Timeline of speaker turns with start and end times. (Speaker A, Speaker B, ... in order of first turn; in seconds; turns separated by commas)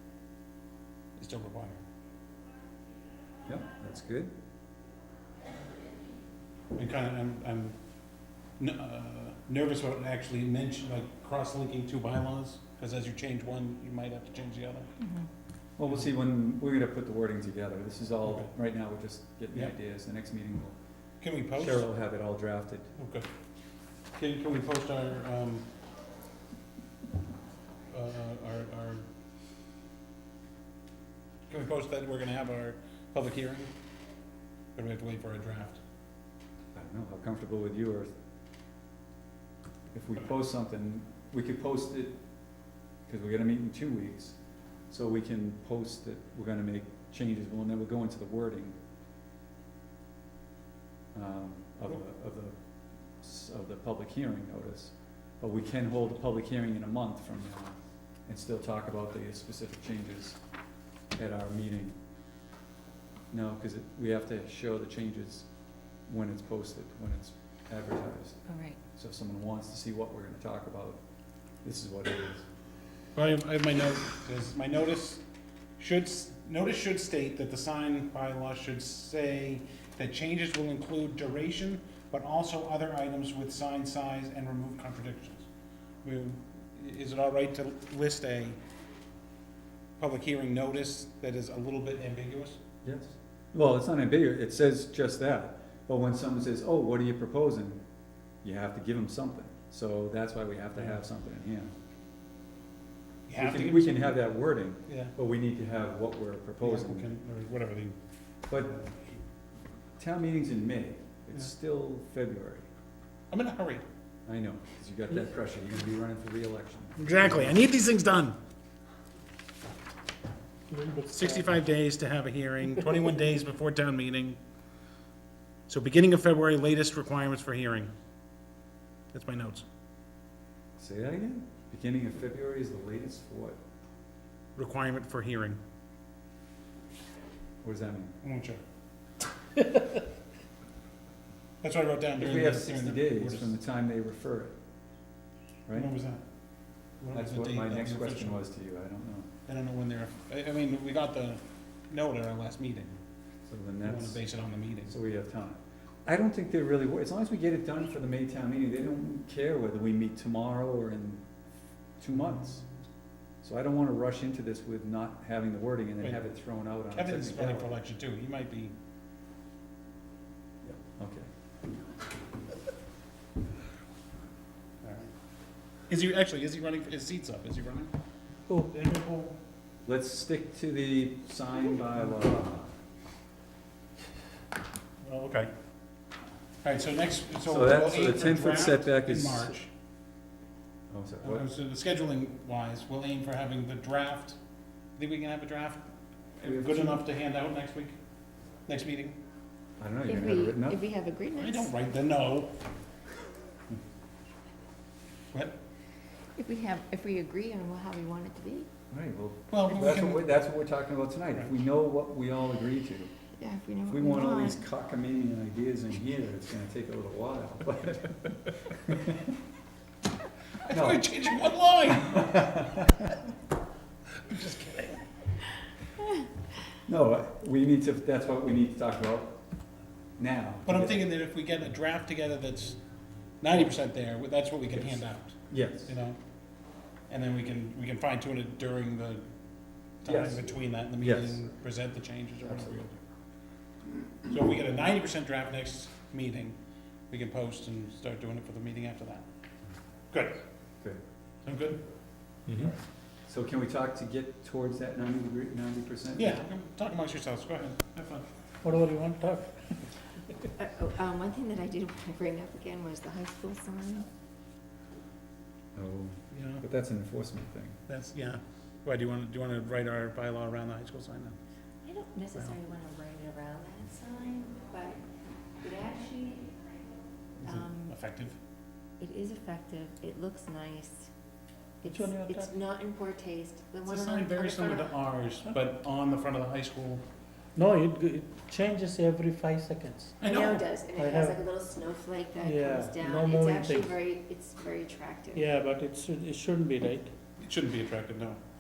Speaker A: 1.2-1.8, Speaker B: 3.5-4.3, Speaker A: 6.8-7.8, Speaker A: 8.6-14.9, Speaker C: 15.0-15.3, Speaker B: 15.8-20.8, Speaker A: 18.2-18.5, Speaker A: 21.2-21.9, Speaker B: 21.6-22.9, Speaker A: 23.0-23.3, Speaker A: 24.1-25.7, Speaker A: 27.9-29.1, Speaker A: 31.5-33.7, Speaker A: 34.8-35.8, Speaker B: 36.8-38.1, Speaker B: 39.9-42.1, Speaker B: 43.1-44.4, Speaker B: 44.9-48.8, Speaker B: 51.1-52.5, Speaker B: 53.2-57.8, Speaker B: 58.3-60.4, Speaker B: 61.2-62.0, Speaker B: 63.3-65.5, Speaker B: 66.1-68.4, Speaker C: 68.5-68.8, Speaker B: 68.9-71.0, Speaker B: 71.6-72.5, Speaker A: 73.2-75.2, Speaker A: 75.8-85.5, Speaker A: 86.0-88.6, Speaker A: 90.0-92.6, Speaker B: 92.8-97.8, Speaker B: 98.4-101.7, Speaker A: 103.3-104.3, Speaker B: 103.4-107.1, Speaker A: 104.9-105.1, Speaker A: 106.6-108.0, Speaker B: 108.5-108.8, Speaker A: 108.7-109.1, Speaker B: 110.0-112.7, Speaker A: 113.3-113.8, Speaker B: 114.3-117.6, Speaker A: 117.0-118.4, Speaker D: 120.7-121.5, Speaker A: 121.1-124.4, Speaker A: 125.7-127.9, Speaker A: 129.1-129.7, Speaker B: 130.8-133.6, Speaker A: 134.6-135.6, Speaker B: 137.6-138.1, Speaker A: 138.2-138.6, Speaker A: 141.6-143.6, Speaker B: 142.2-144.6, Speaker A: 145.8-146.2, Speaker A: 147.0-148.4, Speaker B: 147.1-149.3, Speaker A: 149.5-153.0, Speaker B: 153.5-154.2, Speaker A: 153.8-154.9, Speaker B: 154.9-161.3, Speaker B: 162.0-162.6, Speaker B: 163.4-167.7, Speaker A: 166.9-168.7, Speaker B: 170.6-171.3, Speaker A: 174.8-175.1, Speaker A: 175.9-177.9, Speaker A: 178.7-179.3, Speaker B: 179.9-182.7, Speaker A: 185.0-185.5, Speaker A: 186.6-189.7, Speaker B: 187.5-189.6, Speaker B: 190.9-191.5, Speaker A: 191.2-194.4, Speaker A: 195.0-195.9, Speaker A: 196.4-198.0, Speaker B: 196.4-197.1, Speaker A: 198.7-199.2, Speaker B: 199.8-200.8, Speaker C: 200.1-201.7, Speaker A: 201.4-202.5, Speaker A: 205.3-205.6, Speaker C: 206.4-208.7, Speaker B: 208.9-213.1, Speaker A: 209.5-210.3, Speaker C: 213.4-214.6, Speaker B: 213.9-219.3, Speaker A: 220.7-223.1, Speaker B: 220.7-221.1, Speaker B: 221.9-223.1, Speaker A: 224.3-225.0, Speaker B: 226.9-229.4, Speaker B: 230.2-231.0, Speaker A: 230.7-232.8, Speaker A: 233.4-236.2, Speaker B: 234.7-235.9, Speaker A: 237.1-239.2, Speaker A: 240.0-243.0, Speaker B: 240.1-241.4, Speaker B: 242.4-242.8, Speaker A: 244.3-246.6, Speaker A: 247.1-249.2, Speaker A: 250.1-250.4, Speaker A: 251.4-251.8, Speaker B: 252.5-252.8, Speaker B: 253.3-256.4, Speaker A: 256.2-258.2, Speaker D: 258.6-259.6, Speaker C: 260.6-264.1, Speaker B: 265.8-267.8, Speaker A: 266.3-266.6, Speaker A: 267.9-271.4, Speaker C: 271.8-275.0, Speaker C: 275.6-276.5, Speaker C: 277.4-277.9, Speaker A: 277.4-278.4, Speaker C: 279.0-281.1, Speaker C: 281.8-284.9, Speaker D: 281.9-282.6, Speaker A: 283.9-287.0, Speaker D: 287.6-290.2, Speaker A: 290.2-290.7, Speaker C: 290.2-295.5, Speaker D: 291.0-291.4, Speaker D: 292.4-293.9, Speaker D: 295.4-297.1, Speaker A: 297.4-298.4